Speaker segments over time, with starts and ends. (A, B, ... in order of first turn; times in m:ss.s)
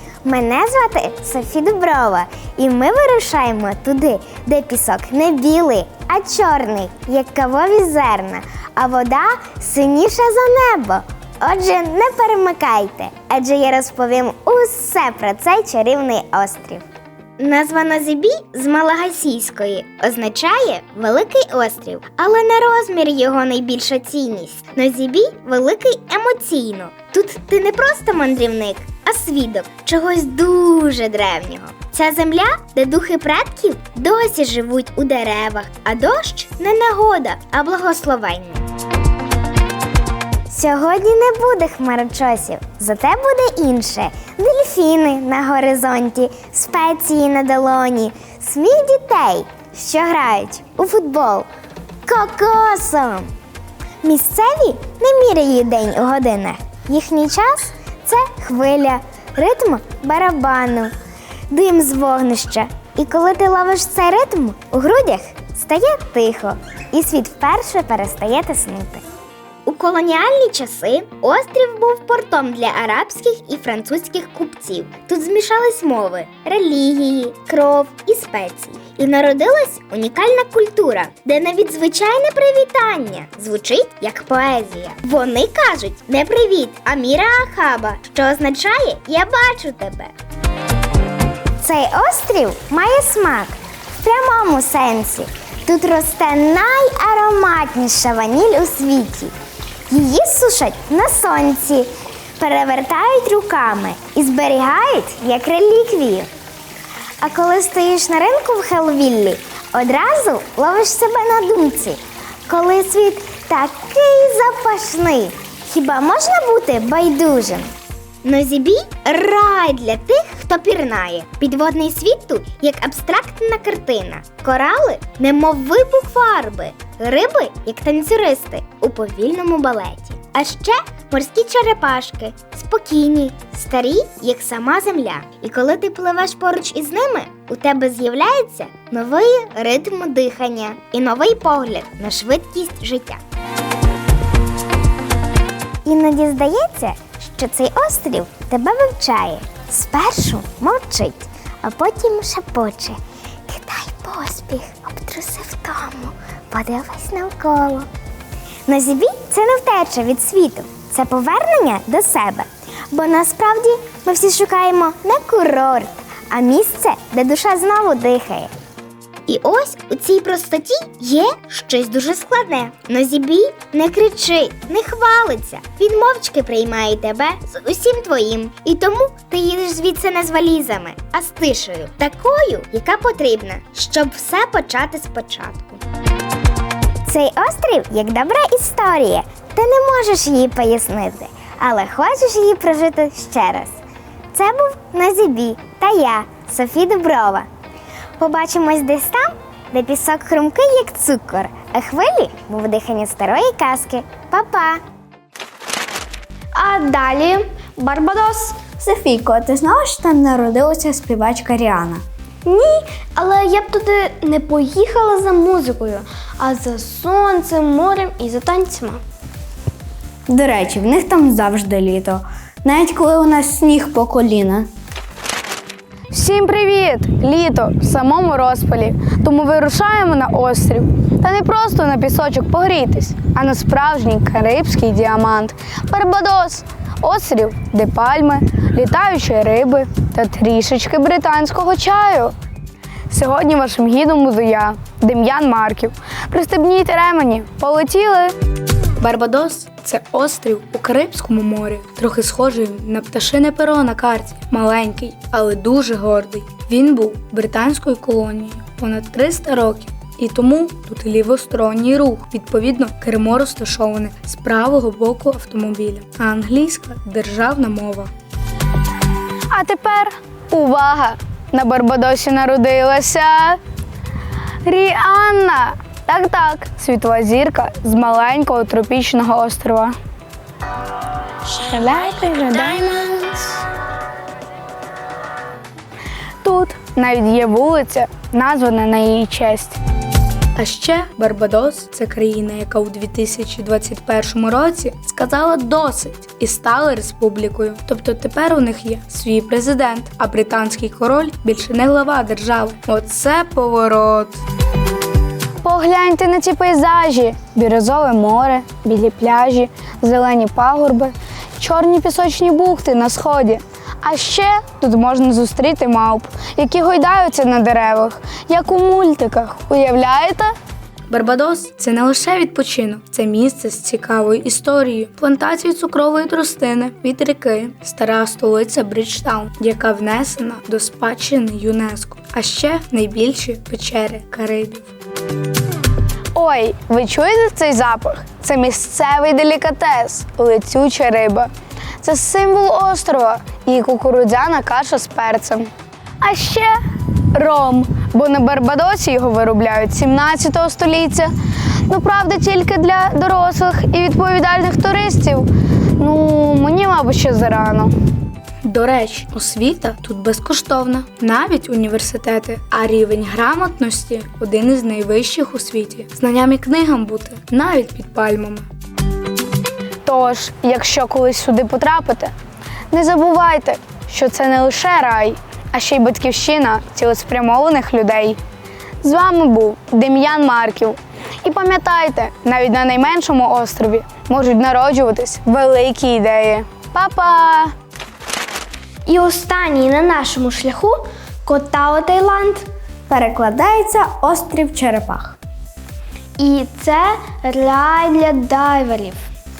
0:00.2-0:16.8 A
0:17.4-0:38.6 A
0:40.5-0:51.5 A
0:52.0-0:53.3 A
0:54.0-1:00.9 A
1:01.5-1:09.0 A
1:09.6-1:30.1 A
1:31.6-1:39.3 A
1:39.9-1:46.3 A
1:47.2-1:57.7 A
1:58.2-2:23.2 A
2:25.8-2:37.9 A
2:38.7-2:48.5 A
2:49.3-3:05.8 A
3:07.0-3:13.8 A
3:14.3-3:17.5 A
3:18.2-3:24.8 A
3:26.5-3:28.7 B
3:28.8-3:32.0 C
3:32.4-3:39.0 B
3:40.3-3:44.7 C
3:46.1-4:02.3 D
4:03.1-4:08.3 D
4:09.0-4:28.1 E
4:29.5-4:33.6 D
4:34.6-4:40.0 D
4:41.6-4:43.0 D
4:46.4-4:49.8 D
4:50.6-5:04.4 E
5:05.6-5:20.5 D
5:21.1-5:34.9 E
5:36.3-5:41.5 D
5:42.0-5:46.8 D
5:47.3-5:51.3 D
5:51.8-5:57.9 D
5:58.6-6:08.6 E
6:10.0-6:12.3 D
6:12.9-6:18.4 D
6:19.0-6:27.7 D
6:29.0-6:32.7 B
6:33.1-6:35.3 C
6:36.4-6:39.3 B